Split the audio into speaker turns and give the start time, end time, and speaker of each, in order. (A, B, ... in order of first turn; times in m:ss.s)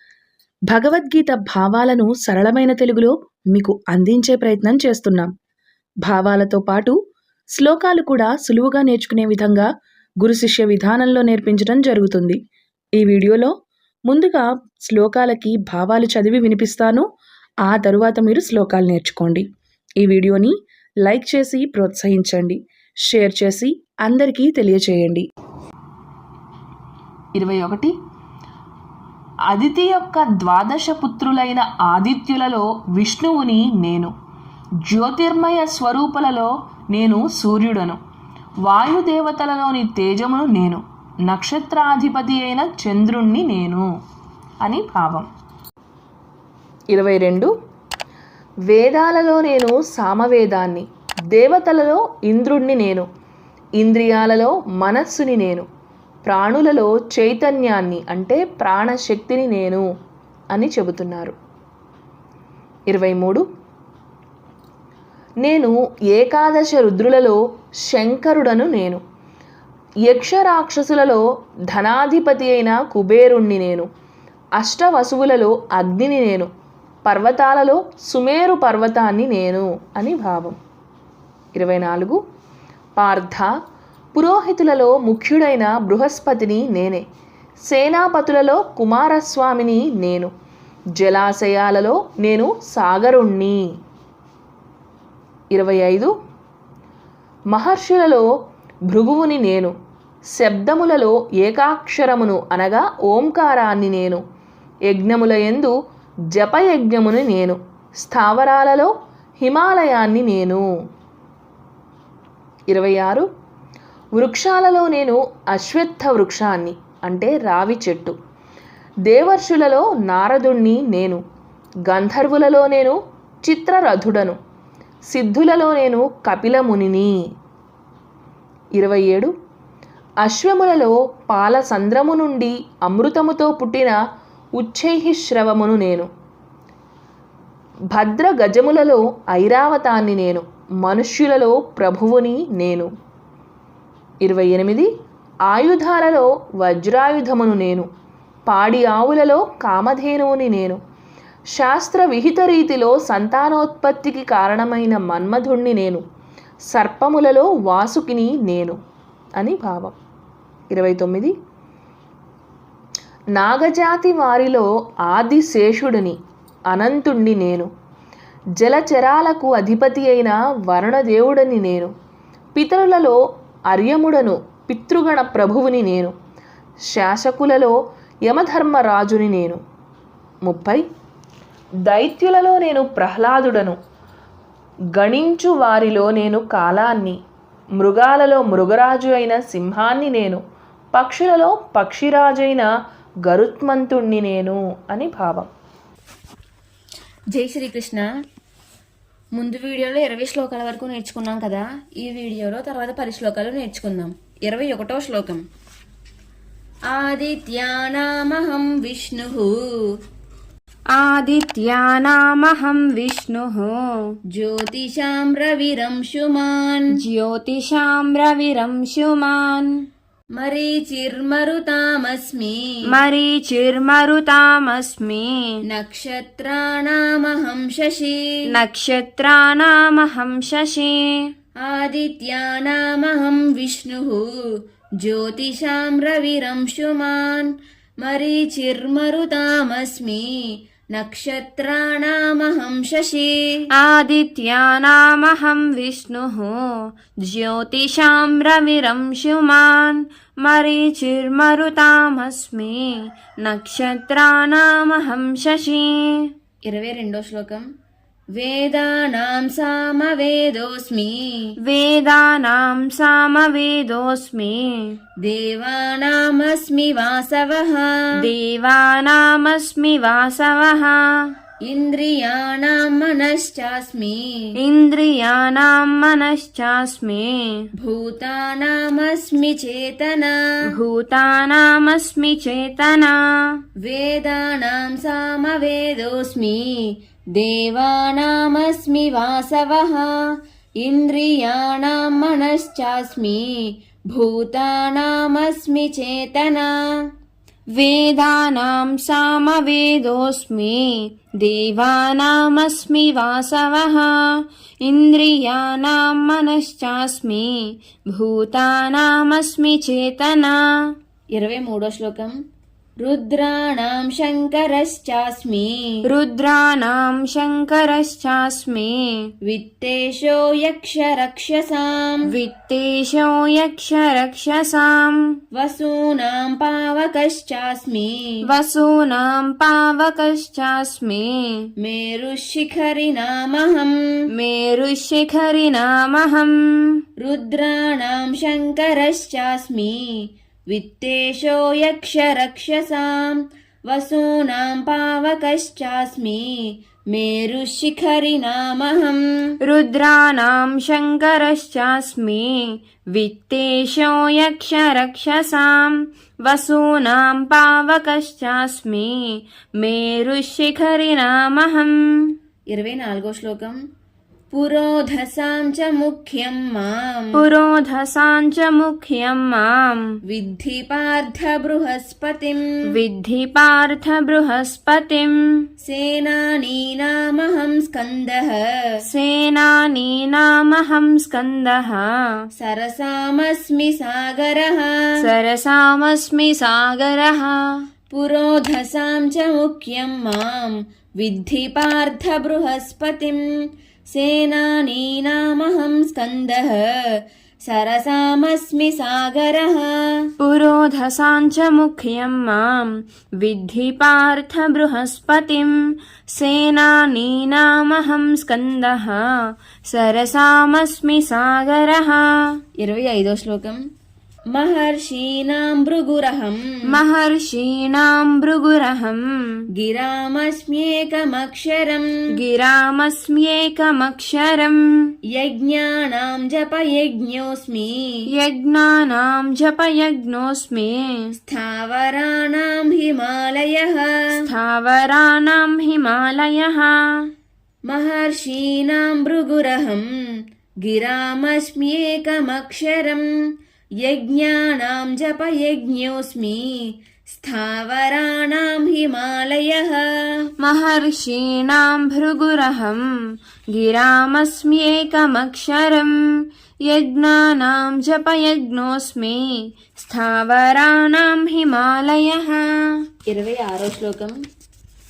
0:00.7-0:05.3 A
0:06.0-0:07.0 A
0:07.5-0:09.7 A
0:10.2-0:12.4 A
0:13.0-0:13.5 A
0:14.1-0:17.1 A
0:17.6-0:19.4 A
0:20.0-0:25.2 A
0:27.3-0:27.9 A
0:29.5-0:34.1 A
0:34.8-0:38.0 A
0:38.6-0:43.9 A
0:44.6-0:45.3 A
0:46.9-0:47.5 A
0:48.7-0:53.1 A
0:53.8-0:55.7 A
0:56.2-0:59.8 A
1:00.5-1:01.4 A
1:02.9-1:03.4 A
1:05.4-1:09.0 A
1:10.1-1:13.9 A
1:14.6-1:16.5 A
1:17.0-1:20.6 A
1:21.5-1:22.2 A
1:23.0-1:23.5 A
1:24.1-1:27.0 A
1:27.7-1:30.3 A
1:31.0-1:33.6 A
1:35.5-1:36.1 A
1:37.5-1:38.2 A
1:38.9-1:39.7 A
1:40.3-1:44.2 A
1:44.9-1:45.7 A
1:46.3-1:50.6 A
1:52.7-1:53.3 A
1:54.1-1:58.2 A
1:59.1-2:01.2 A
2:01.9-2:04.4 A
2:05.1-2:07.2 A
2:08.8-2:09.3 A
2:10.2-2:14.0 A
2:14.6-2:16.1 A
2:17.9-2:22.9 A
2:24.2-2:24.9 A
2:25.5-2:27.9 A
2:28.5-2:30.8 A
2:31.5-2:36.0 A
2:36.7-2:38.8 A
2:39.4-2:39.9 A
2:40.7-2:41.3 A
2:43.4-2:46.2 A
2:46.7-2:47.7 A
2:48.6-2:51.9 A
2:52.5-2:56.1 A
2:56.9-2:59.6 A
3:00.4-3:00.8 A
3:01.8-3:03.8 A
3:04.9-3:07.2 A
3:07.8-3:10.4 A
3:10.9-3:12.7 A
3:13.2-3:15.5 A
3:17.3-3:18.1 B
3:19.3-3:25.4 B
3:26.9-3:29.9 B
3:30.9-3:34.2 C
3:34.3-3:36.9 B
3:36.9-3:39.7 C
3:40.4-3:42.8 B
3:42.9-3:45.6 C
3:45.6-3:48.4 B
3:48.5-3:51.3 C
3:51.6-4:03.5 B
4:03.8-4:16.3 C
4:16.6-4:17.7 B
4:18.3-4:21.5 B
4:21.6-4:25.0 C
4:25.2-4:28.0 B
4:28.2-4:31.3 C
4:31.6-4:34.5 B
4:34.6-4:37.7 C
4:37.7-4:40.4 B
4:40.7-4:43.6 C
4:43.8-4:50.2 B
4:50.8-4:56.8 B
4:57.7-5:10.6 C
5:11.3-5:12.3 B
5:13.0-5:16.0 B
5:16.1-5:19.3 C
5:19.4-5:22.3 B
5:22.3-5:25.4 C
5:25.5-5:28.4 B
5:28.5-5:31.7 C
5:31.8-5:34.0 B
5:34.3-5:37.0 C
5:37.2-5:49.5 B
5:49.6-6:02.4 C
6:02.7-6:03.8 B
6:04.5-6:07.4 B
6:07.3-6:10.2 C
6:10.2-6:12.8 B
6:12.9-6:15.6 C
6:15.8-6:19.0 B
6:19.0-6:22.1 C
6:22.6-6:25.1 B
6:25.2-6:27.6 C
6:28.1-6:33.4 B
6:34.1-6:40.2 B
6:40.4-6:45.7 C
6:46.3-6:52.6 C
6:52.8-6:53.8 B
6:54.5-6:57.0 B
6:56.9-6:59.6 C
6:59.7-7:02.1 B
7:02.3-7:05.1 C
7:05.2-7:08.3 B
7:08.3-7:11.3 C
7:11.4-7:14.2 B
7:14.4-7:17.3 C
7:17.8-7:23.3 B
7:24.0-7:30.3 B
7:30.6-7:33.1 C
7:33.7-7:36.1 C
7:36.8-7:43.0 C
7:43.3-7:44.4 B